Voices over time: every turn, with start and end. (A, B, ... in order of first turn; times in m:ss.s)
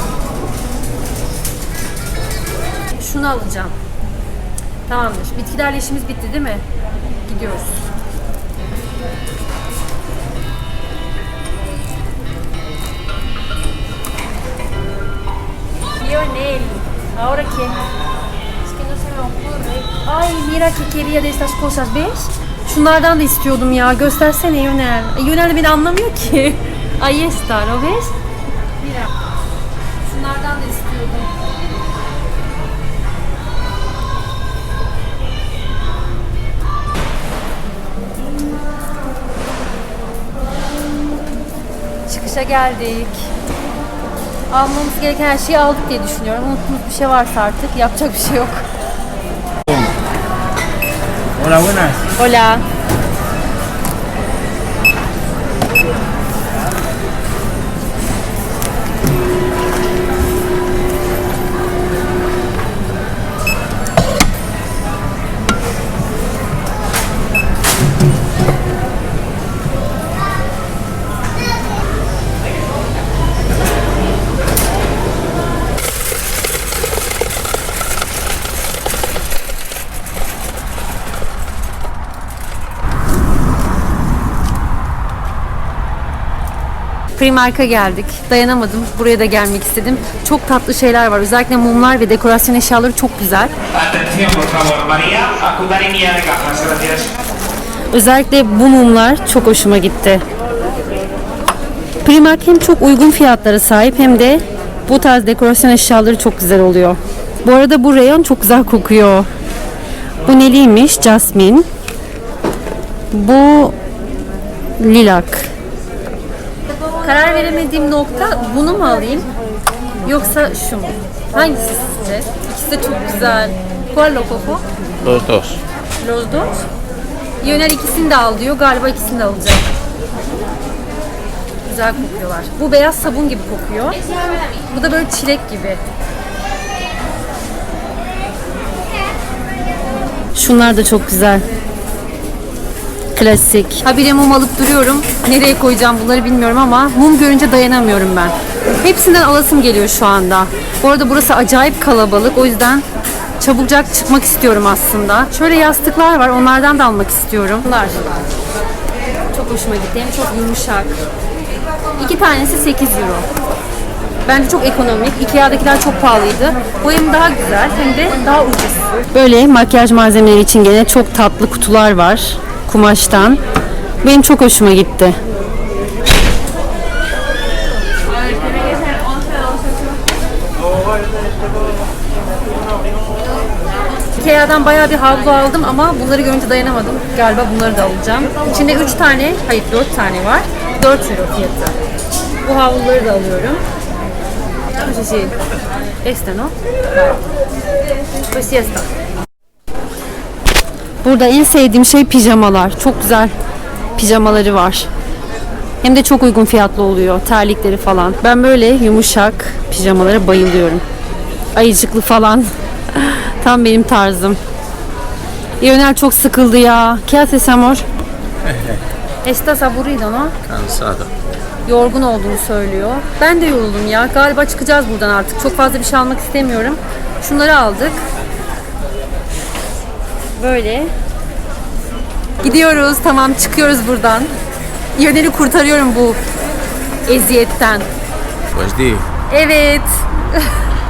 0:03.0-0:03.8 A
0:04.9-0:06.6 A
0:07.3-0:07.9 A
0:16.0-0:17.8 A
0:18.6-0:28.2 A
0:28.8-0:29.1 A
0:30.0-0:31.3 A
0:42.1-0:43.3 A
0:44.5-0:48.6 A
0:51.4-0:52.0 B
0:52.2-0:52.6 A
1:27.2-1:33.5 A
1:33.7-1:37.1 B
1:37.9-1:40.2 A
1:42.0-1:49.3 A
1:50.2-1:51.7 A
1:53.1-1:53.8 A
1:54.8-1:55.5 A
1:57.0-1:59.3 A
2:00.0-2:04.6 A
2:05.0-2:05.6 C
2:06.0-2:06.6 A
2:07.4-2:09.8 A
2:11.6-2:15.8 A
2:20.4-2:21.4 A
2:23.2-2:32.8 A
2:33.4-2:38.2 A
2:39.3-2:41.0 A
2:42.0-2:43.3 A
2:44.3-2:53.4 A
2:54.0-2:55.2 A
2:58.3-2:59.1 A
3:04.1-3:11.8 A
3:12.4-3:13.6 A
3:14.8-3:15.4 A
3:16.0-3:17.2 A
3:18.3-3:18.9 A
3:21.0-3:23.3 A
3:24.0-3:24.9 A
3:25.8-3:30.8 A
3:31.6-3:34.4 A
3:35.6-3:37.8 A
3:38.4-3:38.8 C
3:39.2-3:40.3 A
3:40.4-3:41.1 C
3:41.7-3:48.1 A
3:50.4-3:50.9 A
3:52.4-3:54.3 A
3:55.0-3:56.2 A
3:57.1-3:57.9 A
3:58.5-3:59.1 C
3:59.3-4:00.6 A